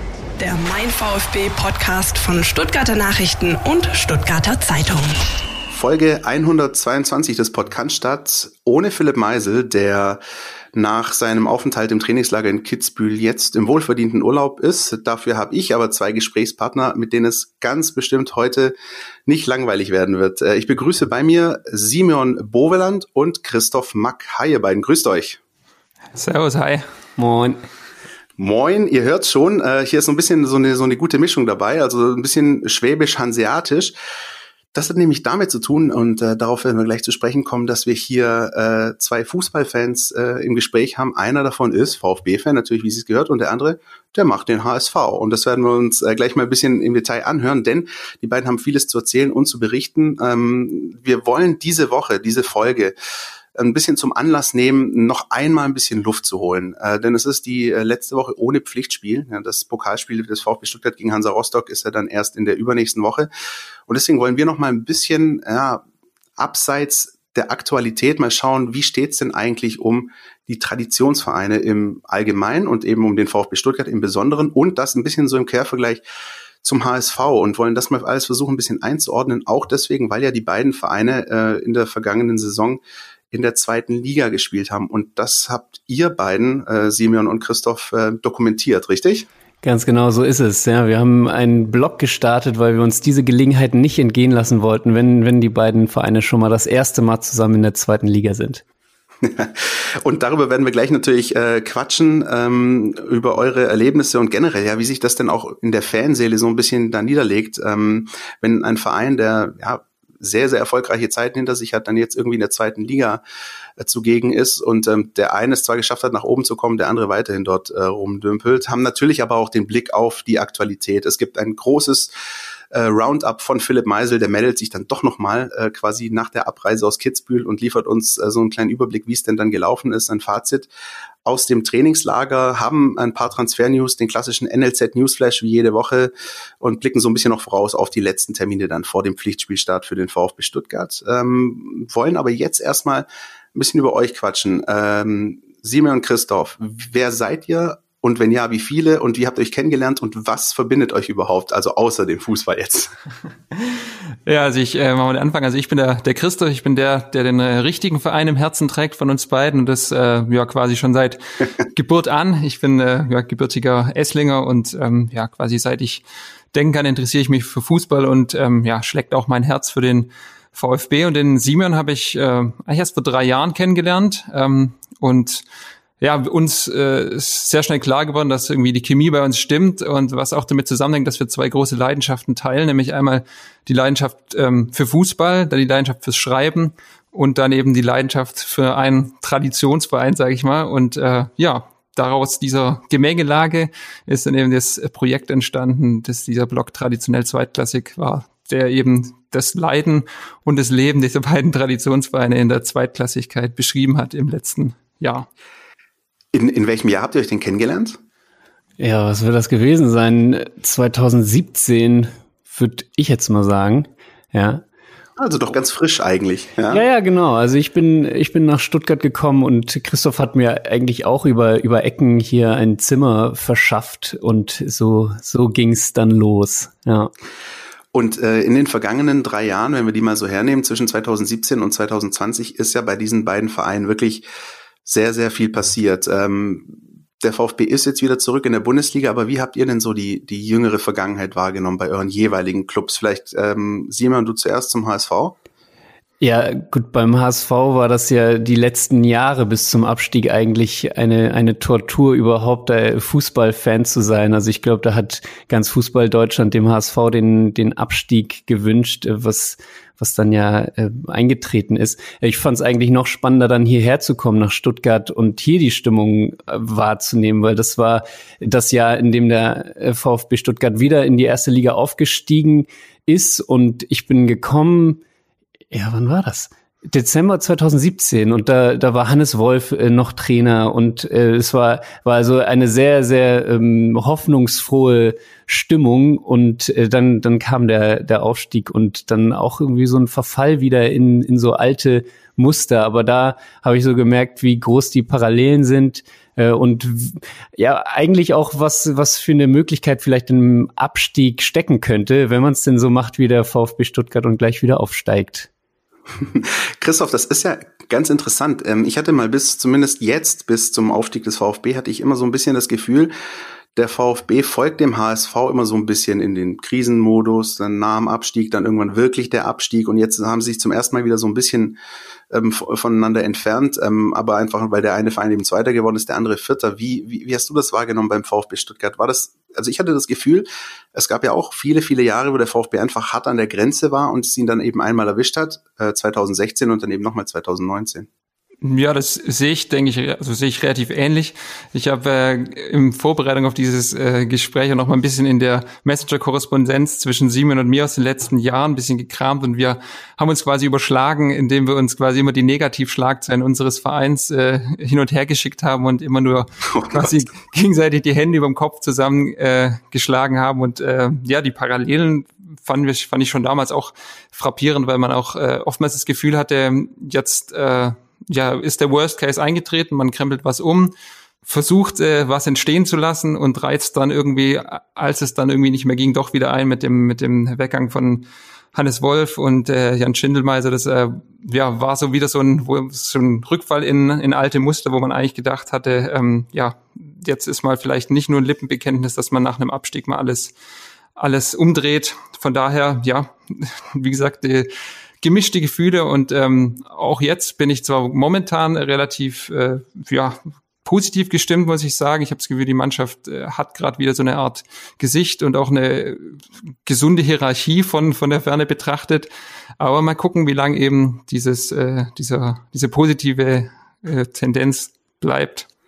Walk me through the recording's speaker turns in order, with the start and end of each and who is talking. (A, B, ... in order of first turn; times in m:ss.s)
0:00.4-0:05.2 A
0:05.7-0:10.2 B
0:10.7-0:18.8 B
0:19.3-0:25.4 B
0:26.2-0:26.9 C
0:27.2-0:27.6 D
0:28.4-0:34.0 B
0:34.7-0:53.0 B
0:53.6-1:03.3 B
1:03.9-1:05.8 B
1:06.4-1:16.0 B
1:16.6-1:22.8 B
1:23.3-1:29.3 B
1:29.6-1:38.6 D
1:39.2-1:53.2 B
1:53.8-2:02.1 B
2:02.7-2:10.7 B
2:11.2-2:32.9 B
2:33.6-2:55.4 C
2:56.0-3:25.3 C
3:26.3-3:28.0 B
3:28.8-3:34.6 D
3:35.2-3:36.8 B
3:36.7-3:47.1 D
3:47.9-3:54.3 B
3:54.8-4:05.4 B
4:06.2-4:35.0 D
4:35.7-5:05.5 D
5:06.2-5:13.1 B
5:13.8-5:21.8 B
5:22.3-5:38.1 B
5:38.6-6:10.9 C
5:56.7-5:57.3 B
6:11.4-6:30.5 C
6:31.2-6:55.7 C